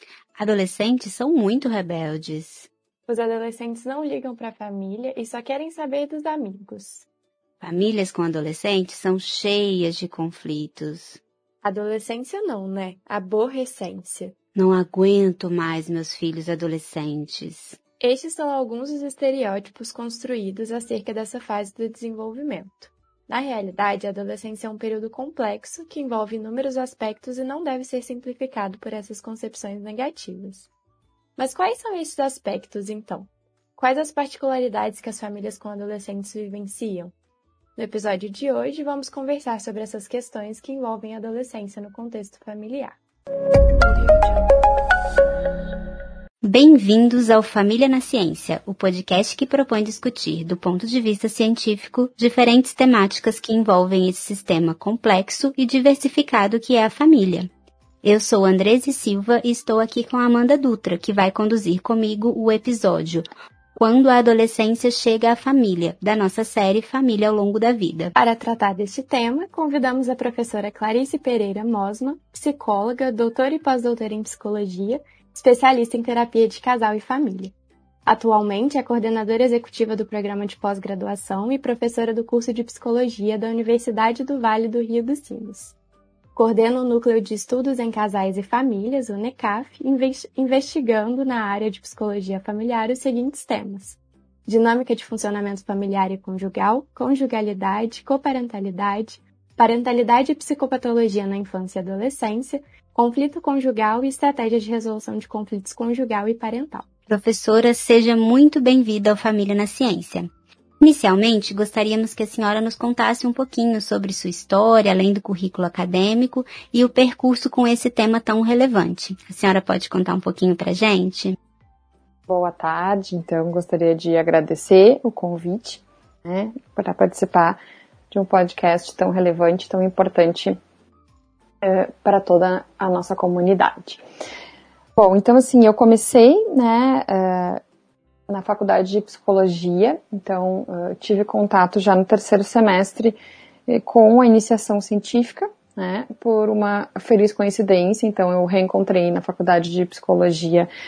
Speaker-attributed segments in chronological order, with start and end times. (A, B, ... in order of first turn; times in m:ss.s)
0:00.4-0:02.7 A
0:03.1-0:07.1 B
0:07.6-0:11.2 A
0:11.6-0:14.4 B
0:14.6-0:17.8 A
0:18.0-0:30.7 B
0:31.4-0:37.1 B
0:37.8-0:43.0 B
0:46.4-0:57.5 A
0:58.0-1:03.2 A
1:03.8-1:08.2 A
1:08.2-1:17.5 B
1:18.1-1:25.8 B
1:26.4-1:46.9 B
1:47.1-2:01.4 A
2:02.3-2:07.6 C
2:08.1-2:10.6 C
2:11.6-2:14.0 C
2:15.0-2:17.6 C
2:18.3-2:30.7 C